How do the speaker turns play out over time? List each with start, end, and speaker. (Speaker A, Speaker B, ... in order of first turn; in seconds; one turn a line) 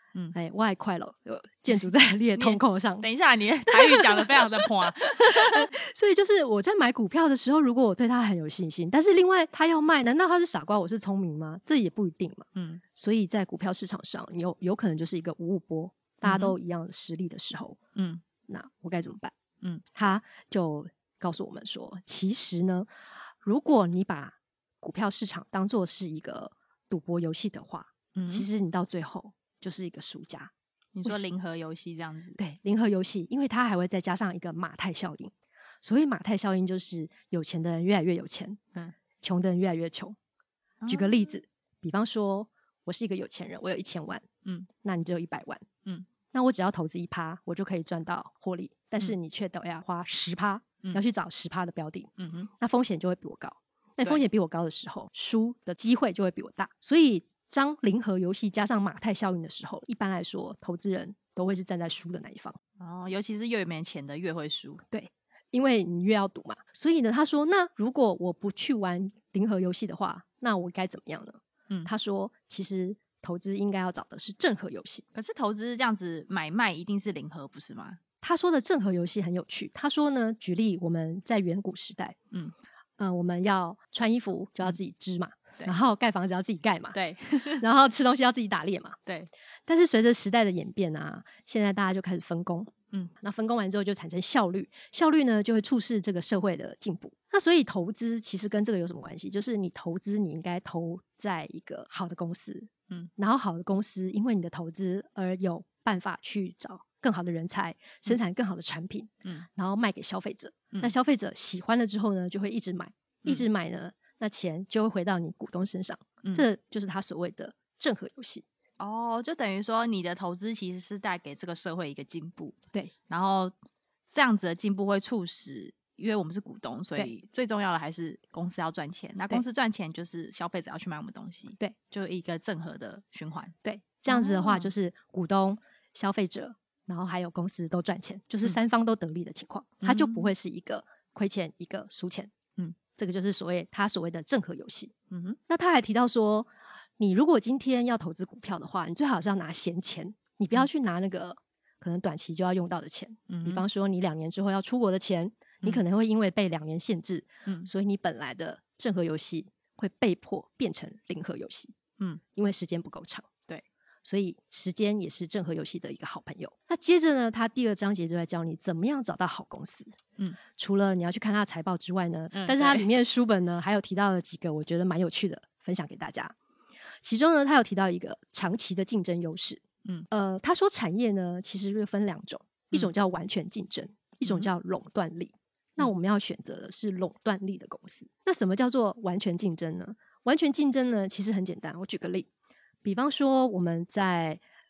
Speaker A: 0.3-3.1
Speaker B: 1.7-5.7
Speaker A: 3.7-17.8
Speaker B: 12.6-12.8
Speaker B: 16.3-16.6
Speaker B: 17.9-18.2
Speaker A: 18.5-19.3
Speaker A: 19.9-22.9
Speaker A: 23.4-30.5
Speaker B: 28.1-28.5
Speaker B: 30.9-32.4
Speaker A: 32.4-38.6
Speaker A: 39.2-40.2
Speaker B: 40.8-41.2
Speaker A: 40.9-44.3
Speaker A: 44.8-45.6
Speaker A: 46.3-62.6
Speaker B: 52.2-52.5
Speaker B: 62.8-64.8
Speaker A: 64.9-75.0
Speaker B: 75.1-78.0
Speaker A: 78.2-82.2
Speaker A: 83.0-87.0
Speaker B: 86.9-87.6
Speaker A: 87.6-89.0
Speaker A: 89.7-118.4
Speaker B: 118.8-122.6
Speaker B: 123.1-123.5
Speaker B: 124.1-133.6
Speaker A: 133.6-142.3
Speaker B: 134.1-134.7
Speaker B: 139.8-140.3
Speaker A: 142.9-144.9
Speaker B: 145.1-145.4
Speaker A: 145.5-161.7
Speaker B: 153.3-153.6
Speaker A: 162.3-163.3
Speaker A: 164.1-170.0
Speaker A: 170.6-176.3
Speaker B: 172.3-172.9
Speaker A: 177.0-192.3
Speaker A: 192.8-194.4